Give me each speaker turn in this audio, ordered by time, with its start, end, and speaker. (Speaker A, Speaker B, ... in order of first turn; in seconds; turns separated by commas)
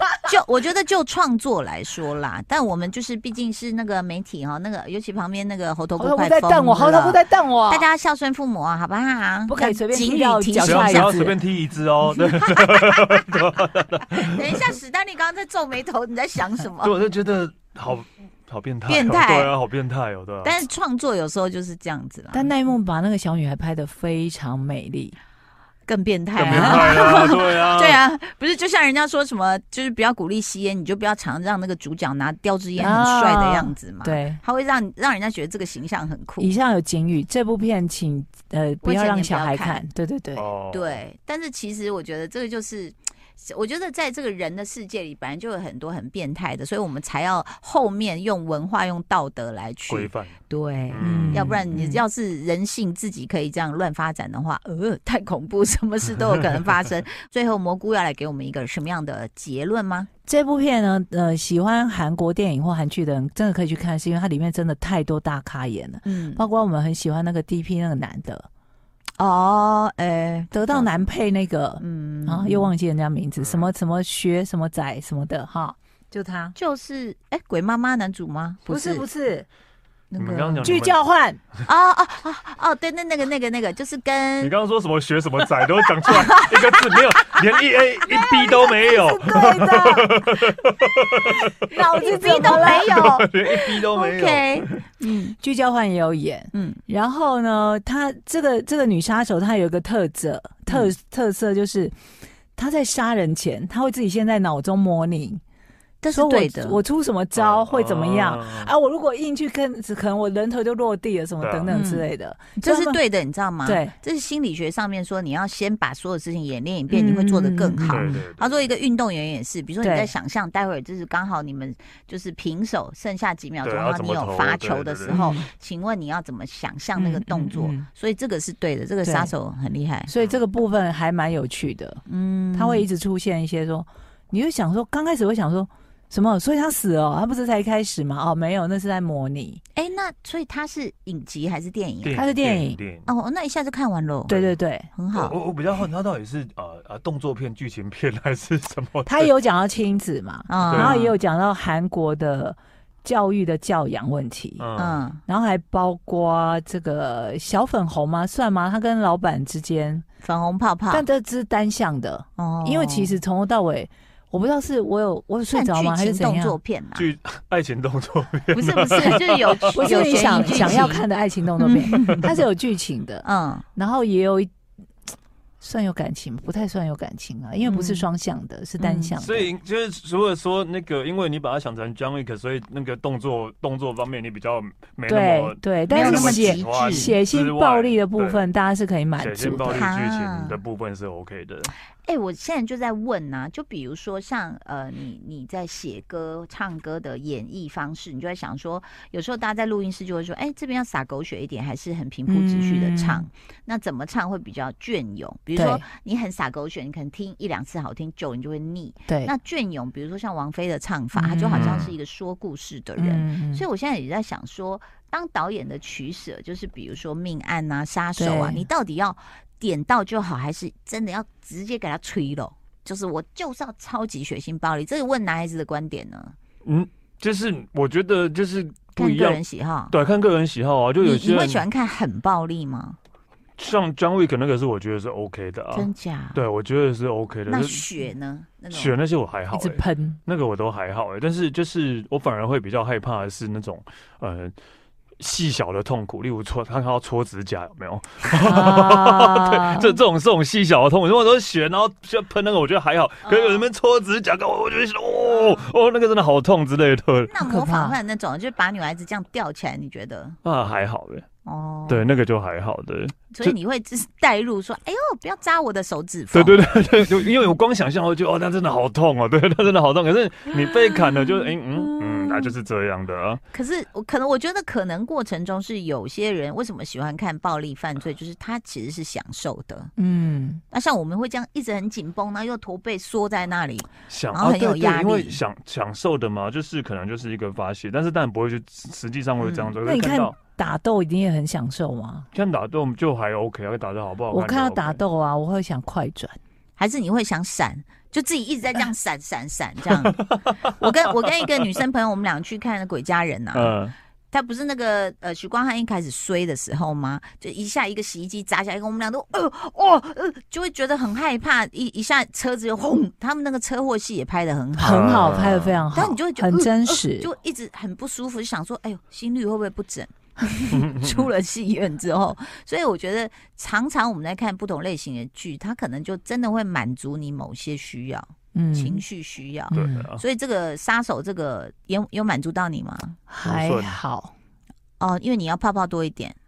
Speaker A: 0.2-11.2, Speaker B: 6.0-7.9, Speaker B: 9.5-11.4, Speaker C: 10.6-14.7, Speaker A: 12.1-16.9, Speaker C: 16.8-20.7, Speaker A: 18.9-19.5, Speaker A: 20.4-22.5, Speaker B: 22.3-25.2, Speaker A: 25.9-36.5, Speaker C: 26.4-28.0, Speaker B: 26.4-27.2, Speaker B: 32.8-34.4, Speaker B: 36.4-40.5, Speaker A: 38.8-39.8, Speaker C: 40.4-41.0, Speaker A: 40.7-60.1, Speaker C: 49.9-50.4, Speaker C: 50.9-51.6, Speaker B: 51.0-52.0, Speaker B: 60.3-68.5, Speaker A: 66.0-66.5, Speaker A: 69.2-71.0, Speaker B: 70.5-76.6, Speaker A: 71.8-72.7, Speaker C: 73.4-73.7, Speaker A: 76.5-79.1, Speaker B: 78.7-79.5, Speaker A: 80.1-80.8, Speaker C: 80.2-81.0, Speaker B: 80.6-81.4, Speaker A: 81.7-84.5, Speaker C: 84.4-94.9, Speaker A: 86.0-87.5, Speaker A: 88.1-90.2, Speaker B: 88.1-90.3, Speaker A: 91.3-95.3, Speaker B: 91.7-93.0, Speaker B: 95.2-102.0, Speaker A: 96.5-96.8, Speaker B: 102.6-105.4, Speaker A: 106.0-106.8, Speaker B: 106.1-113.0, Speaker C: 107.3-108.7, Speaker C: 111.4-111.7, Speaker A: 111.7-112.1, Speaker A: 112.6-130.1, Speaker B: 113.6-114.0, Speaker B: 116.9-118.2, Speaker C: 117.9-118.7, Speaker B: 119.8-120.1, Speaker C: 123.6-125.4, Speaker B: 125.1-125.4, Speaker B: 127.0-127.9, Speaker B: 129.0-129.3, Speaker B: 130.1-132.0, Speaker A: 132.1-132.9, Speaker B: 132.5-139.6, Speaker A: 139.8-142.3, Speaker C: 142.0-143.1, Speaker B: 142.2-142.8, Speaker A: 143.1-144.4, Speaker B: 144.3-144.9, Speaker A: 144.9-145.4, Speaker C: 145.1-149.3, Speaker B: 149.1-154.7, Speaker A: 150.5-151.1, Speaker C: 150.6-151.0, Speaker C: 154.6-155.0, Speaker A: 154.8-155.2, Speaker B: 155.3-160.1, Speaker A: 160.2-161.1, Speaker B: 160.9-166.6, Speaker A: 162.4-163.2, Speaker A: 165.5-167.1, Speaker C: 167.0-170.9, Speaker A: 168.5-171.1, Speaker B: 169.7-174.5, Speaker A: 171.6-172.3, Speaker C: 171.9-172.2, Speaker A: 173.2-173.7, Speaker B: 175.6-179.5, Speaker A: 177.6-178.1, Speaker A: 178.8-179.2, Speaker C: 179.2-188.4, Speaker B: 185.1-189.9, Speaker A: 185.9-187.1, Speaker C: 189.2-191.7, Speaker A: 189.7-190.6, Speaker A: 192.0-226.3, Speaker B: 202.3-203.3, Speaker B: 205.6-205.8, Speaker B: 209.1-209.3, Speaker B: 211.1-211.9, Speaker C: 211.5-211.9, Speaker B: 213.0-213.7, Speaker B: 218.2-218.7, Speaker C: 226.7-231.7, Speaker A: 229.0-230.0, Speaker A: 231.0-233.0, Speaker C: 233.6-237.9, Speaker A: 235.7-236.4, Speaker A: 237.5-239.0, Speaker C: 238.7-244.6, Speaker B: 239.5-240.2, Speaker C: 245.2-257.3, Speaker B: 248.4-250.0, Speaker A: 253.2-253.7, Speaker A: 255.2-255.7, Speaker A: 257.3-260.4, Speaker B: 257.4-258.0, Speaker C: 260.4-261.3, Speaker A: 261.4-262.1, Speaker C: 261.9-263.6, Speaker A: 263.3-266.8, Speaker C: 266.3-273.4, Speaker A: 270.9-272.6, Speaker A: 273.5-279.9, Speaker B: 280.0-280.6, Speaker A: 280.7-285.4, Speaker C: 284.1-290.4, Speaker A: 289.4-289.7, Speaker B: 289.8-292.3, Speaker C: 292.3-295.0, Speaker B: 294.3-296.4, Speaker A: 296.8-303.8, Speaker C: 300.1-300.9, Speaker C: 303.5-303.9, Speaker A: 304.3-315.4, Speaker C: 314.8-315.8, Speaker B: 314.8-317.3, Speaker A: 315.9-333.2, Speaker C: 320.7-321.3, Speaker B: 328.5-329.0, Speaker C: 329.7-330.2, Speaker B: 329.7-330.1, Speaker B: 333.3-334.3, Speaker C: 333.4-334.0, Speaker A: 335.0-336.4